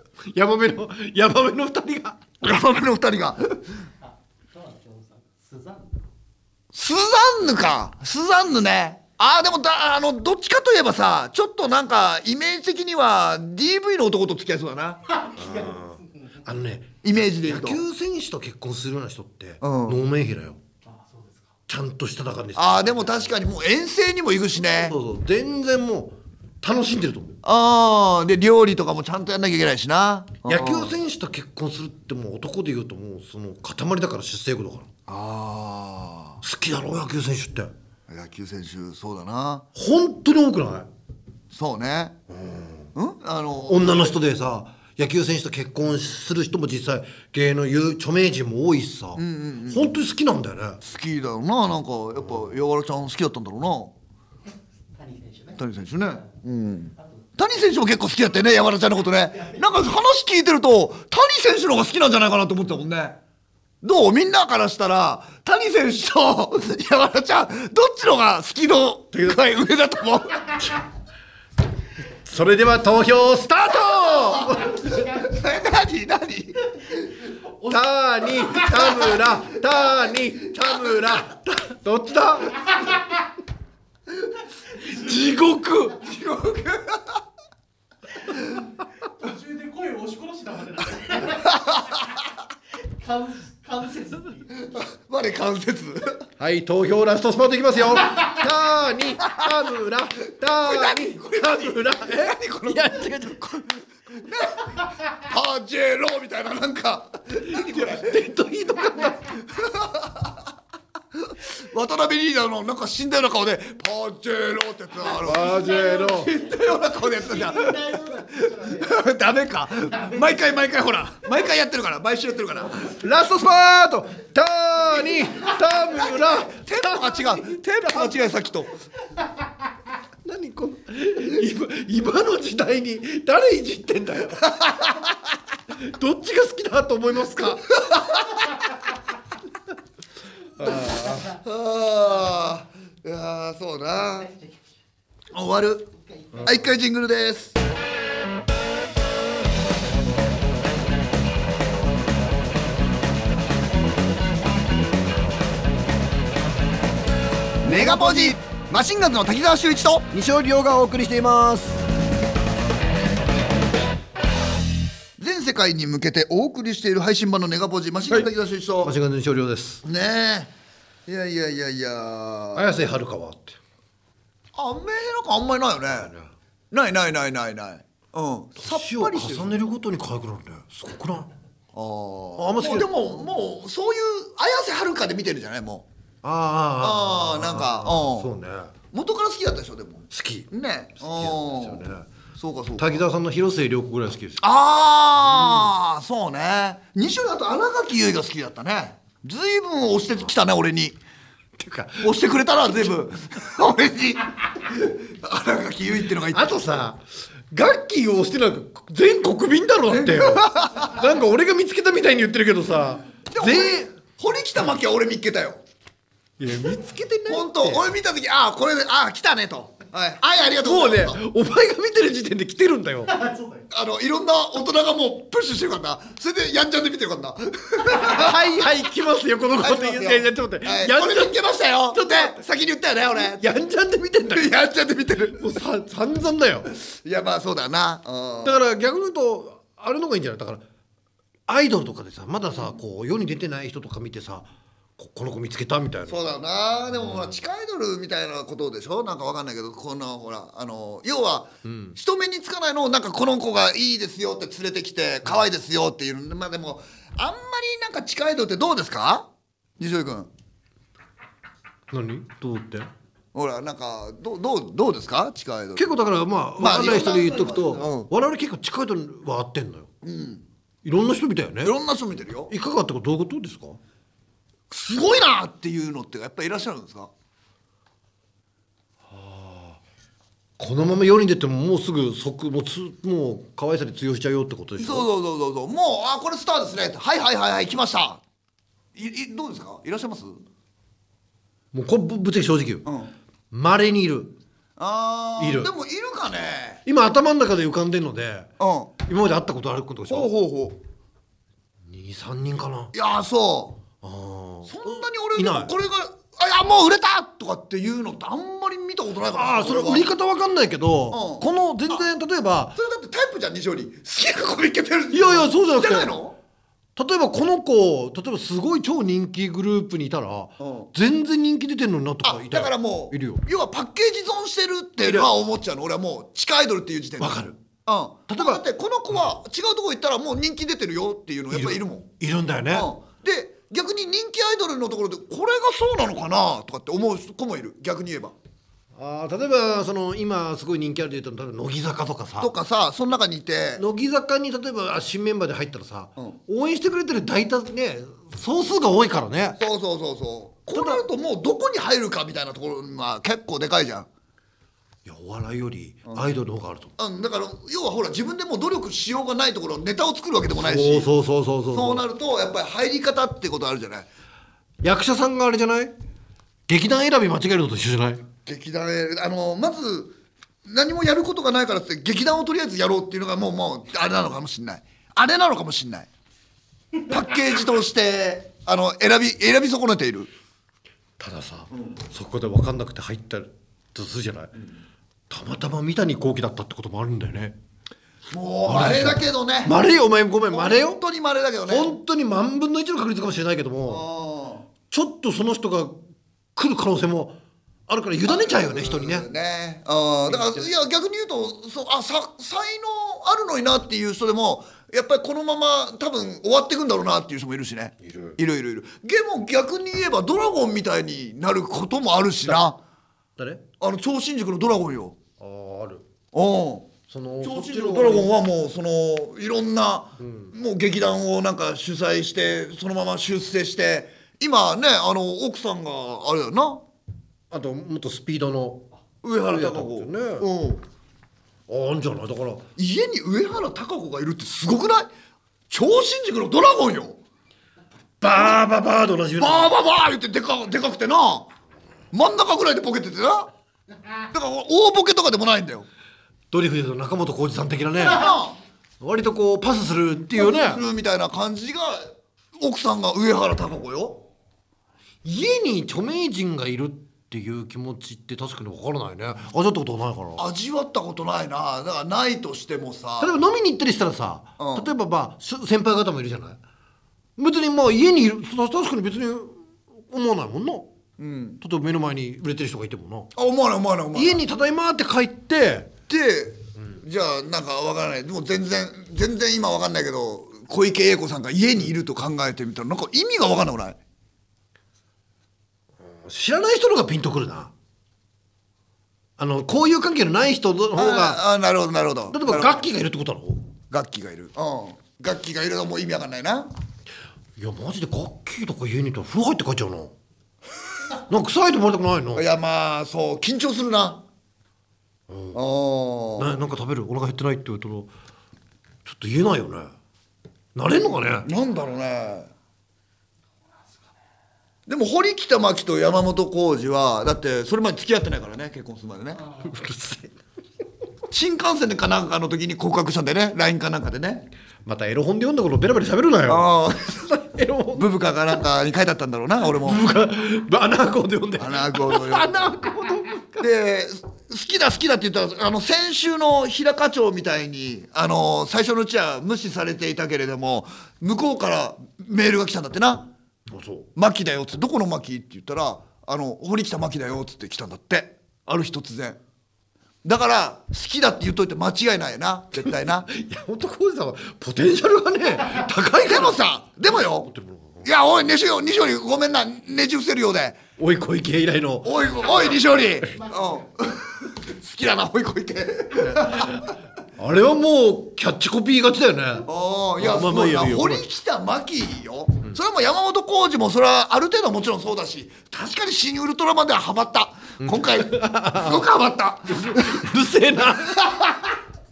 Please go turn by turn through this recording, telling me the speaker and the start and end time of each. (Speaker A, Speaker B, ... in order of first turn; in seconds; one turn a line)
Speaker A: 0.3-2.2
Speaker B: 2.4-3.6
Speaker C: 4.0-5.9
Speaker B: 6.7-15.0
Speaker C: 15.1-16.4
Speaker A: 15.3-20.6
Speaker B: 17.0-17.8
Speaker B: 19.6-20.0
Speaker C: 20.9-21.5
Speaker A: 21.7-23.3
Speaker B: 22.5-24.9
Speaker A: 24.8-27.4
Speaker B: 27.4-31.0
Speaker A: 30.4-34.9
Speaker B: 35.1-36.4
Speaker A: 36.4-37.7
Speaker B: 38.1-39.6
Speaker A: 39.7-40.9
Speaker B: 41.5-42.2
Speaker A: 42.3-42.9
Speaker B: 42.9-44.1
Speaker A: 43.7-50.8
Speaker B: 49.1-50.0
Speaker B: 50.8-53.9
Speaker C: 54.9-55.6
Speaker B: 55.5-63.2
Speaker B: 63.8-70.8
Speaker A: 72.2-74.8
Speaker B: 74.4-76.9
Speaker A: 77.6-82.6
Speaker A: 84.8-86.0
Speaker B: 86.0-87.2
Speaker C: 89.2-92.0
Speaker B: 91.5-92.1
Speaker C: 93.0-94.5
Speaker B: 94.5-96.2
Speaker A: 96.4-103.8
Speaker B: 100.5-103.1
Speaker B: 104.2-108.2
Speaker A: 107.4-109.3
Speaker B: 109.5-110.3
Speaker B: 111.2-123.0
Speaker A: 115.2-116.3
Speaker C: 115.2-118.9
Speaker C: 119.9-120.5
Speaker A: 122.8-128.3
Speaker B: 126.4-128.7
Speaker A: 130.2-134.5
Speaker B: 134.4-135.1
Speaker A: 135.7-137.7
Speaker B: 137.7-138.5
Speaker A: 140.6-141.3
Speaker B: 140.6-144.3
Speaker C: 144.0-144.6
Speaker B: 145.3-145.9
Speaker C: 146.1-146.5
Speaker B: 146.4-147.6
Speaker B: 157.6-160.1
Speaker A: 157.6-158.3
Speaker A: 160.1-161.8
Speaker B: 165.2-168.9
Speaker A: 168.8-169.8
Speaker B: 169.8-170.5
Speaker B: 171.1-172.8
Speaker A: 172.5-173.6
Speaker B: 174.5-176.1
Speaker A: 175.9-176.3
Speaker B: 176.7-179.6
Speaker A: 178.6-181.3
Speaker B: 181.7-185.9
Speaker A: 182.4-183.0
Speaker A: 186.2-188.7
Speaker B: 186.8-188.3
Speaker B: 188.9-193.0
Speaker A: 190.1-190.5
Speaker A: 191.0-192.1
Speaker A: 192.8-194.4
Speaker B: 194.4-201.0
Speaker A: 195.2-195.7
Speaker A: 201.6-202.2
Speaker B: 202.0-206.8
Speaker A: 206.3-213.9
Speaker B: 209.9-211.0
Speaker B: 213.3-215.6
Speaker A: 216.4-217.9
Speaker B: 217.3-221.2
Speaker A: 220.6-223.2
Speaker C: 223.1-223.6
Speaker B: 223.7-228.5
Speaker A: 228.0-231.4
Speaker B: 229.6-233.5
Speaker A: 231.9-232.3
Speaker A: 233.4-234.5
Speaker B: 234.3-235.5
Speaker A: 235.3-236.7
Speaker B: 236.8-238.6
Speaker A: 238.4-240.6
Speaker A: 241.5-246.2
Speaker B: 246.1-259.3
Speaker A: 247.0-247.4
Speaker A: 251.6-252.0
Speaker B: 259.8-260.3
Speaker A: 261.9-262.9
Speaker B: 263.3-265.9
Speaker A: 265.8-269.9
Speaker B: 266.6-268.1
Speaker B: 270.0-270.4
Speaker A: 270.8-271.8
Speaker B: 271.6-272.5
Speaker A: 272.5-273.8
Speaker B: 274.7-277.1
Speaker A: 279.1-279.8
Speaker A: 280.6-285.1
Speaker B: 284.8-288.2
Speaker B: 288.9-290.4
Speaker A: 291.7-292.9
Speaker B: 292.9-293.1
Speaker A: 293.5-294.4
Speaker B: 294.8-296.8
Speaker A: 295.4-295.7
Speaker A: 296.9-298.5
Speaker B: 298.6-298.9
Speaker A: 299.0-300.3
Speaker B: 300.1-300.8
Speaker A: 301.9-302.9
Speaker B: 302.9-303.8
Speaker A: 304.0-305.7
Speaker B: 304.6-310.1
Speaker A: 309.3-312.8
Speaker B: 311.1-311.4
Speaker B: 312.8-316.4
Speaker A: 315.1-316.1
Speaker A: 316.9-323.4
Speaker B: 320.6-320.9
Speaker B: 322.2-332.1
Speaker A: 325.0-325.3
Speaker A: 327.2-327.6
Speaker A: 328.3-328.6
Speaker A: 331.5-332.9
Speaker B: 332.7-338.4
Speaker A: 338.9-342.5
Speaker B: 342.4-343.8
Speaker A: 343.8-349.6
Speaker B: 349.6-354.1
Speaker A: 350.7-351.0
Speaker A: 355.0-356.9
Speaker B: 357.0-361.1
Speaker A: 360.5-362.0
Speaker B: 361.7-364.1
Speaker A: 364.8-365.9
Speaker A: 366.7-368.2
Speaker B: 368.4-376.1
Speaker B: 377.0-380.3
Speaker A: 381.2-384.5
Speaker A: 385.3-387.6
Speaker B: 388.3-389.8
Speaker A: 388.7-391.0
Speaker B: 390.5-391.9
Speaker A: 391.7-394.0
Speaker B: 393.9-394.7
Speaker A: 394.9-396.0
Speaker A: 396.6-397.4
Speaker A: 397.9-399.3
Speaker B: 398.2-412.8
Speaker A: 400.3-400.6
Speaker A: 408.0-408.4
Speaker A: 413.4-413.6
Speaker B: 413.8-415.2
Speaker A: 415.4-416.0
Speaker B: 416.3-426.8
Speaker A: 417.1-418.3
Speaker A: 420.2-420.5
Speaker A: 427.5-428.9
Speaker B: 429.2-430.8
Speaker A: 429.5-430.5
Speaker A: 431.7-432.6
Speaker B: 432.8-435.1
Speaker B: 435.7-437.2
Speaker A: 438.2-439.7
Speaker B: 439.4-441.5
Speaker B: 442.1-443.5
Speaker B: 444.3-445.9
Speaker A: 446.5-448.3
Speaker B: 448.0-448.6
Speaker A: 449.0-450.8
Speaker B: 450.4-454.2
Speaker A: 455.2-460.4
Speaker B: 460.4-463.4
Speaker A: 463.2-466.6
Speaker B: 464.6-464.9
Speaker A: 467.4-470.9
Speaker B: 471.2-471.6
Speaker A: 471.6-473.3
Speaker B: 473.4-474.4
Speaker A: 474.1-475.9
Speaker B: 476.1-484.0
Speaker A: 486.0-487.7
Speaker A: 489.4-491.4
Speaker B: 490.9-492.9
Speaker A: 492.3-493.6
Speaker B: 493.9-496.7
Speaker A: 497.6-500.1
Speaker A: 501.3-502.4
Speaker B: 502.4-504.2
Speaker A: 505.3-505.6
Speaker B: 505.5-506.6
Speaker A: 506.4-508.1
Speaker A: 509.0-509.9
Speaker A: 510.7-511.5
Speaker B: 511.4-512.5
Speaker B: 514.9-519.4
Speaker A: 519.6-520.4
Speaker B: 521.3-524.5
Speaker A: 524.9-528.1
Speaker B: 526.5-527.3
Speaker B: 527.9-530.0
Speaker A: 529.6-533.7
Speaker B: 531.6-532.7
Speaker B: 533.6-543.3
Speaker A: 543.7-544.1
Speaker B: 544.1-549.4
Speaker B: 550.2-553.3
Speaker A: 552.8-558.1
Speaker B: 556.2-560.8
Speaker A: 561.0-562.1
Speaker B: 562.0-566.9
Speaker A: 566.2-569.7
Speaker B: 569.6-580.3
Speaker A: 570.2-571.2
Speaker A: 577.8-579.1
Speaker A: 579.7-581.3
Speaker B: 581.1-581.7